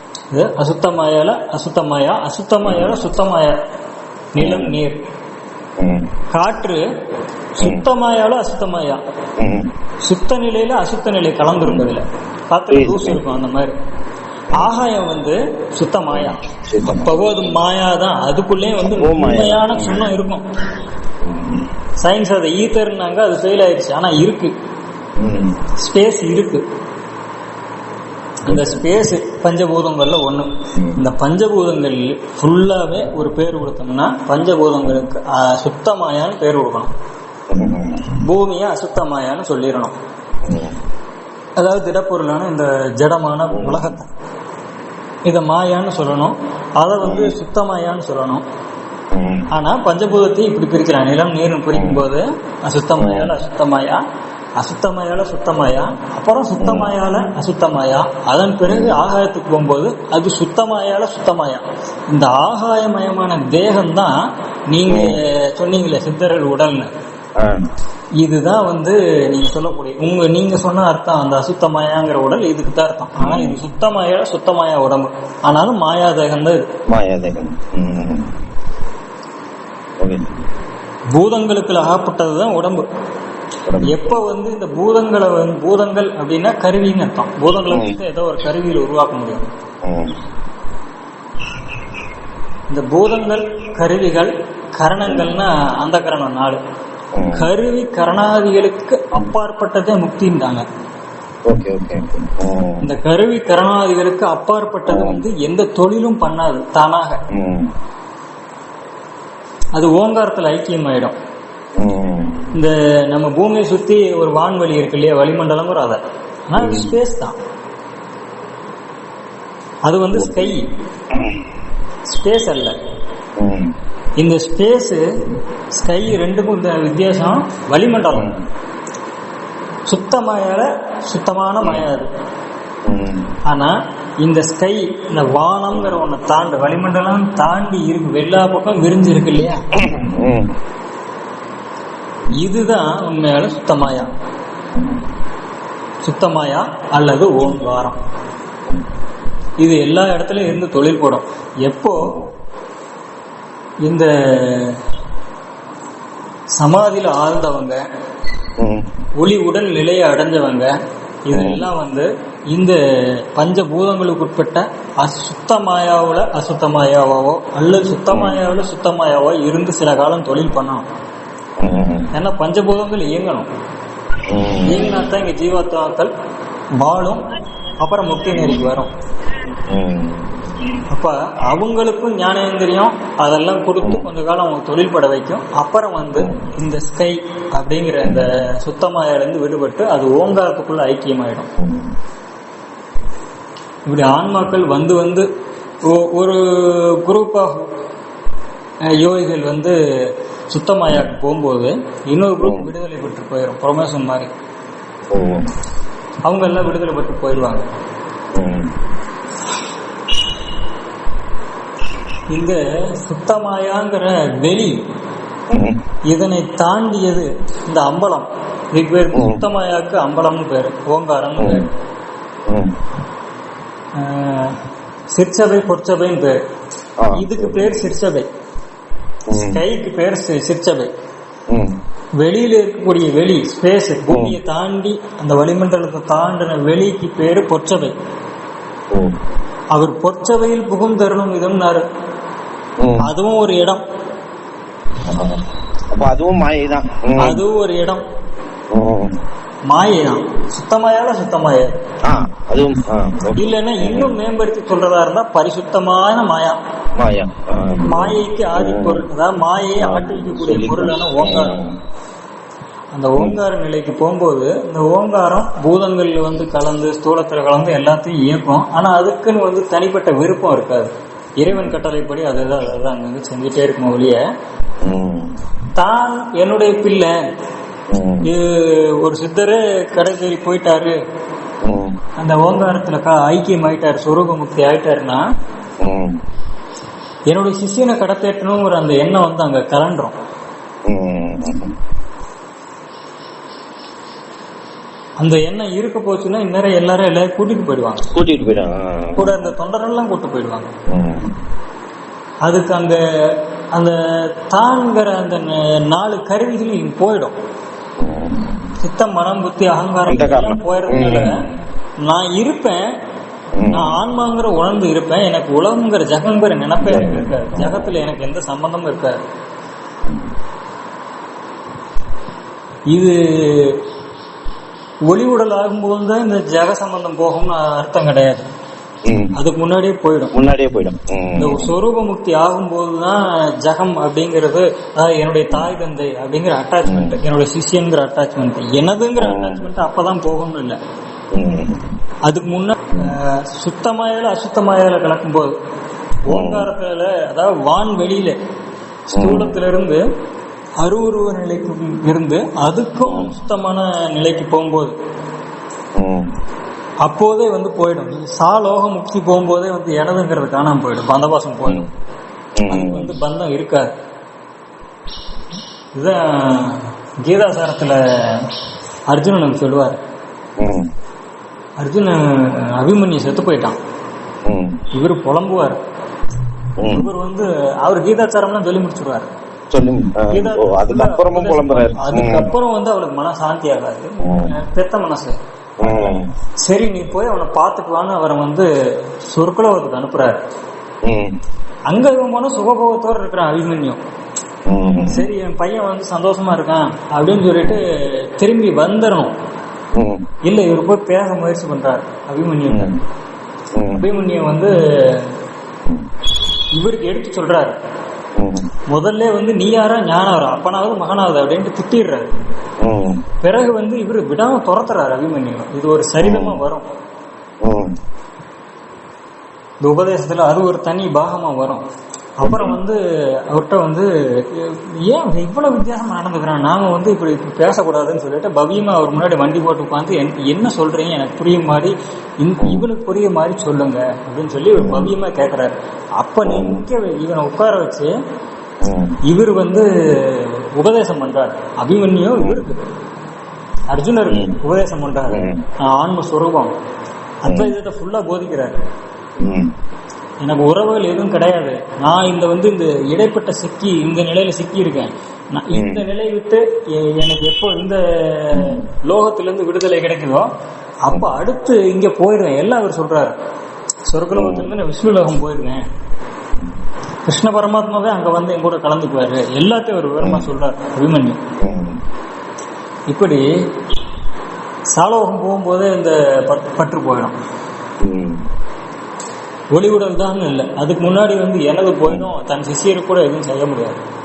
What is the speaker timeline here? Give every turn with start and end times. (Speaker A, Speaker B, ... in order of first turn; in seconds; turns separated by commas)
Speaker A: 0.3-3.6, Speaker B: 2.6-3.0, Speaker A: 4.3-5.0, Speaker B: 4.4-4.7, Speaker B: 5.8-6.1, Speaker A: 6.3-6.8, Speaker A: 7.6-9.0, Speaker B: 9.4-9.7, Speaker A: 10.0-13.7, Speaker B: 11.6-11.9, Speaker B: 12.7-13.2, Speaker A: 14.5-20.4, Speaker B: 16.1-17.4, Speaker B: 18.8-20.1, Speaker B: 21.2-21.7, Speaker A: 22.0-24.5, Speaker B: 25.2-25.6, Speaker A: 25.8-26.6, Speaker A: 28.5-36.9, Speaker B: 28.5-28.9, Speaker B: 30.7-31.0, Speaker B: 37.5-38.2, Speaker A: 38.2-39.9, Speaker B: 40.4-40.8, Speaker A: 41.6-44.1, Speaker B: 43.5-43.9, Speaker A: 45.2-48.4, Speaker B: 47.0-47.4, Speaker B: 49.1-49.5, Speaker A: 49.5-54.0, Speaker B: 51.7-52.0, Speaker B: 53.0-53.3, Speaker A: 54.6-64.1, Speaker B: 56.6-56.9, Speaker B: 58.7-59.0, Speaker A: 64.7-66.9, Speaker B: 64.9-65.2, Speaker B: 67.4-67.7, Speaker A: 68.2-76.6, Speaker B: 73.2-73.6, Speaker B: 76.9-78.3, Speaker B: 80.0-80.4, Speaker A: 81.1-82.8, Speaker B: 83.6-84.0, Speaker A: 83.8-89.4, Speaker B: 87.7-88.0, Speaker B: 89.8-90.2, Speaker A: 92.7-96.6, Speaker B: 97.1-97.5, Speaker A: 97.3-100.6, Speaker B: 101.5-102.9, Speaker A: 102.8-107.2, Speaker B: 104.9-105.2, Speaker B: 107.3-107.7, Speaker A: 109.8-111.1, Speaker B: 111.8-112.5, Speaker A: 112.5-117.3, Speaker B: 116.6-116.9, Speaker A: 119.9-120.7, Speaker A: 122.1-122.7, Speaker B: 123.4-123.7, Speaker A: 124.2-125.0, Speaker A: 125.8-128.3, Speaker B: 128.1-128.4, Speaker A: 129.9-132.1, Speaker B: 132.8-133.3, Speaker A: 133.5-139.6, Speaker B: 139.7-140.5, Speaker A: 142.3-144.1, Speaker A: 146.0-147.9, Speaker A: 149.6-152.1, Speaker B: 152.0-152.3, Speaker A: 153.9-154.8, Speaker A: 156.6-157.8, Speaker B: 158.6-158.9, Speaker A: 159.2-160.7, Speaker A: 161.2-162.8, Speaker B: 161.3-161.6, Speaker A: 163.3-170.8, Speaker B: 171.6-172.1, Speaker A: 172.1-173.5, Speaker B: 174.3-174.9, Speaker A: 174.7-176.1, Speaker A: 176.8-177.2, Speaker A: 177.8-178.9, Speaker B: 179.7-180.5, Speaker A: 180.9-191.5, Speaker B: 191.6-191.9, Speaker A: 193.8-195.3, Speaker A: 195.8-197.7, Speaker A: 199.0-204.3, Speaker B: 202.4-202.7, Speaker B: 205.1-205.5, Speaker A: 206.3-207.6, Speaker B: 208.3-208.7, Speaker A: 212.3-214.8, Speaker B: 215.5-215.8, Speaker A: 216.1-221.7, Speaker B: 219.1-219.4, Speaker B: 221.4-221.7, Speaker B: 222.5-222.8, Speaker A: 224.0-224.6, Speaker A: 225.1-226.4, Speaker B: 227.0-227.8, Speaker A: 227.1-228.3, Speaker B: 229.3-229.6, Speaker A: 229.3-230.9, Speaker B: 231.5-231.8, Speaker A: 232.2-237.9, Speaker B: 234.1-234.3, Speaker A: 239.7-241.8, Speaker B: 242.8-243.0, Speaker A: 243.0-243.8, Speaker B: 245.0-247.4, Speaker A: 247.2-248.0, Speaker B: 248.7-249.2, Speaker A: 249.7-251.8, Speaker B: 252.1-254.1, Speaker A: 253.4-256.6, Speaker B: 257.0-259.1, Speaker A: 257.9-261.6, Speaker B: 259.8-261.8, Speaker A: 262.9-274.2, Speaker B: 271.5-271.8, Speaker B: 274.8-275.3, Speaker A: 275.8-277.1, Speaker B: 277.9-278.3, Speaker A: 278.2-280.9, Speaker B: 281.6-282.0, Speaker A: 282.2-285.2, Speaker B: 285.8-286.2, Speaker A: 287.3-290.1, Speaker B: 290.9-291.8, Speaker A: 295.2-298.1, Speaker B: 298.1-299.3, Speaker A: 299.1-300.7, Speaker B: 300.9-301.4, Speaker A: 302.4-307.3, Speaker B: 308.0-308.7, Speaker A: 308.8-311.4, Speaker B: 310.1-311.5, Speaker A: 312.0-312.8, Speaker B: 313.5-314.0, Speaker A: 313.7-319.2, Speaker B: 316.8-317.9, Speaker A: 322.9-323.8, Speaker A: 325.1-328.5, Speaker B: 329.0-329.4, Speaker A: 329.3-330.3, Speaker B: 330.3-331.7, Speaker A: 331.4-340.8, Speaker B: 336.8-337.2, Speaker B: 339.2-339.6, Speaker B: 341.3-341.9, Speaker A: 342.3-345.5, Speaker A: 346.2-348.4, Speaker B: 346.3-346.7, Speaker A: 349.1-350.0, Speaker B: 349.1-349.6, Speaker A: 350.8-354.9, Speaker B: 353.0-353.3, Speaker B: 356.0-356.3, Speaker A: 357.0-361.9, Speaker B: 362.6-363.1, Speaker A: 362.7-363.9, Speaker A: 365.9-368.5, Speaker A: 369.1-370.0, Speaker B: 370.6-370.9, Speaker A: 371.8-373.8, Speaker B: 374.4-374.8, Speaker A: 374.9-375.8, Speaker B: 376.8-377.1, Speaker A: 376.9-379.3, Speaker B: 379.7-382.5, Speaker A: 380.3-388.7, Speaker B: 384.2-384.5, Speaker B: 385.8-386.3, Speaker A: 389.3-390.4, Speaker B: 391.0-391.4, Speaker A: 391.9-394.0, Speaker B: 394.7-395.2, Speaker A: 395.1-399.3, Speaker B: 399.9-400.2, Speaker A: 400.4-402.9, Speaker B: 402.7-403.0, Speaker B: 403.7-404.1, Speaker A: 404.0-405.3, Speaker A: 406.7-407.8, Speaker B: 408.4-408.7, Speaker A: 408.9-412.3, Speaker B: 412.8-413.2, Speaker A: 413.4-416.9, Speaker B: 416.2-416.6, Speaker B: 417.6-417.9, Speaker A: 419.8-421.8, Speaker A: 422.4-438.1, Speaker B: 422.4-422.8, Speaker B: 434.8-435.1, Speaker B: 436.4-436.8, Speaker B: 438.8-439.2, Speaker A: 439.2-442.8, Speaker B: 442.4-442.6, Speaker A: 443.9-446.7, Speaker B: 444.3-444.6, Speaker B: 445.3-445.6, Speaker A: 447.4-448.8, Speaker B: 447.4-447.7, Speaker B: 449.4-449.7, Speaker A: 450.4-460.5, Speaker B: 455.7-456.0, Speaker B: 458.5-458.8, Speaker A: 461.1-463.3, Speaker A: 464.1-465.8, Speaker B: 464.3-464.7, Speaker A: 467.2-471.4, Speaker B: 470.2-470.5, Speaker B: 471.6-472.0, Speaker A: 473.1-473.4, Speaker A: 474.9-477.3, Speaker B: 478.0-478.4, Speaker A: 479.7-484.0